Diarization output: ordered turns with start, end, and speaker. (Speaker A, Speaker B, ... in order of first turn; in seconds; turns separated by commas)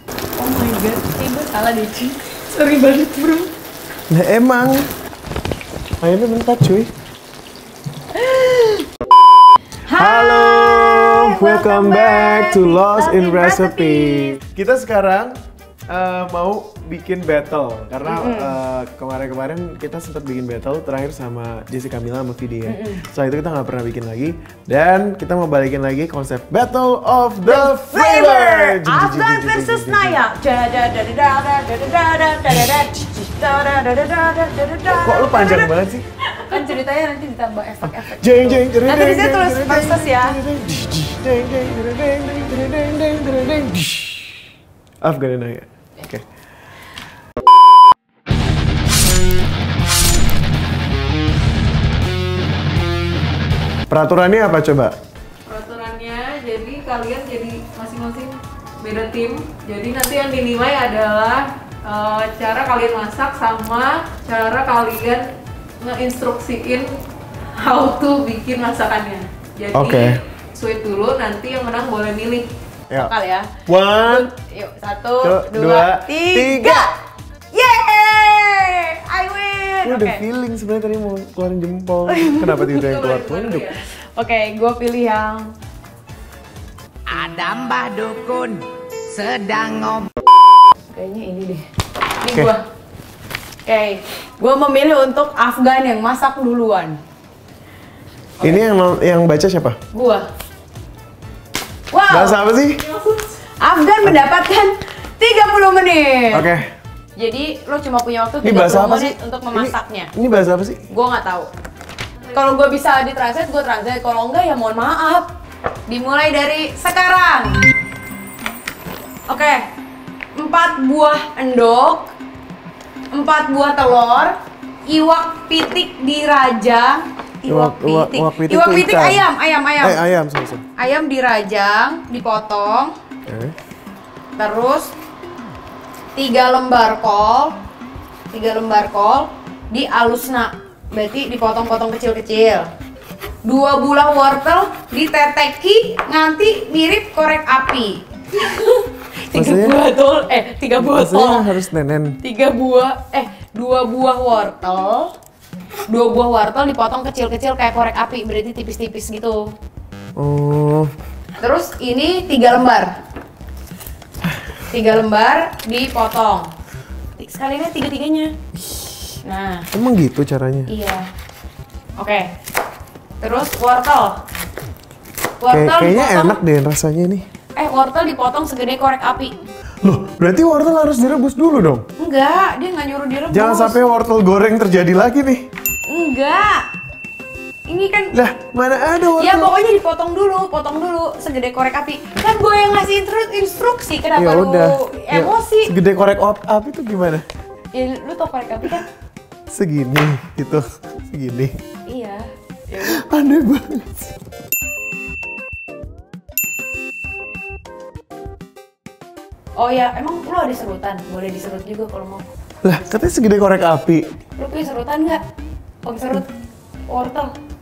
Speaker A: 0.4-3.5, Speaker B: 4.1-4.9, Speaker B: 6.0-6.9, Speaker A: 8.1-8.9, Speaker A: 9.8-14.4, Speaker B: 9.9-15.4, Speaker B: 15.9-30.2, Speaker A: 18.1-18.6, Speaker A: 22.6-23.0, Speaker A: 27.4-35.8, Speaker B: 34.9-36.0, Speaker A: 36.3-40.4, Speaker B: 37.8-44.2, Speaker B: 45.0-46.2, Speaker B: 53.9-55.0, Speaker C: 55.5-58.3, Speaker A: 55.5-58.2, Speaker A: 58.8-59.2, Speaker C: 58.8-65.2, Speaker A: 60.0-61.4, Speaker A: 62.1-62.7, Speaker C: 65.8-66.9, Speaker A: 67.6-70.0, Speaker C: 67.7-68.7, Speaker B: 69.7-70.2, Speaker C: 70.6-72.5, Speaker A: 70.6-72.1, Speaker A: 72.9-76.9, Speaker B: 73.7-74.3, Speaker B: 75.2-76.9, Speaker A: 77.5-80.2, Speaker B: 79.8-83.7, Speaker A: 82.1-85.5, Speaker D: 87.1-90.1, Speaker A: 90.9-91.7, Speaker A: 92.2-92.6, Speaker A: 93.7-97.0, Speaker B: 98.4-99.8, Speaker A: 99.9-100.3, Speaker A: 101.9-102.4, Speaker B: 102.1-102.8, Speaker A: 103.3-106.5, Speaker B: 106.3-106.7, Speaker A: 107.2-110.1, Speaker B: 108.4-110.8, Speaker A: 110.9-111.5, Speaker A: 112.3-115.3, Speaker A: 115.9-117.6, Speaker A: 119.3-119.7, Speaker A: 120.4-122.1, Speaker A: 123.1-130.0, Speaker B: 127.5-129.3, Speaker B: 129.8-130.7, Speaker A: 130.8-132.9, Speaker B: 133.3-133.6, Speaker A: 134.4-134.9, Speaker A: 136.2-137.6, Speaker A: 138.3-142.7, Speaker A: 143.4-151.5, Speaker B: 149.3-149.8, Speaker B: 150.8-152.2, Speaker A: 152.2-155.1, Speaker A: 155.9-159.4, Speaker B: 160.2-160.9, Speaker A: 161.4-162.9, Speaker A: 164.7-166.5, Speaker A: 167.2-168.3, Speaker A: 169.2-169.7, Speaker B: 169.7-170.7, Speaker A: 170.7-171.1, Speaker A: 172.0-172.3, Speaker A: 173.2-174.2, Speaker A: 175.4-176.4, Speaker B: 175.5-177.3, Speaker A: 177.6-179.4, Speaker B: 179.8-181.8, Speaker A: 182.0-183.8, Speaker B: 183.3-185.5, Speaker A: 185.9-186.7, Speaker A: 187.7-188.2, Speaker B: 188.1-189.6, Speaker A: 189.1-195.7, Speaker B: 194.2-197.2, Speaker A: 197.7-198.9, Speaker B: 199.5-201.6, Speaker A: 201.9-203.1, Speaker B: 202.8-203.9, Speaker A: 209.6-212.2, Speaker B: 212.6-214.1, Speaker A: 214.4-215.2, Speaker A: 215.8-216.3, Speaker A: 216.9-217.3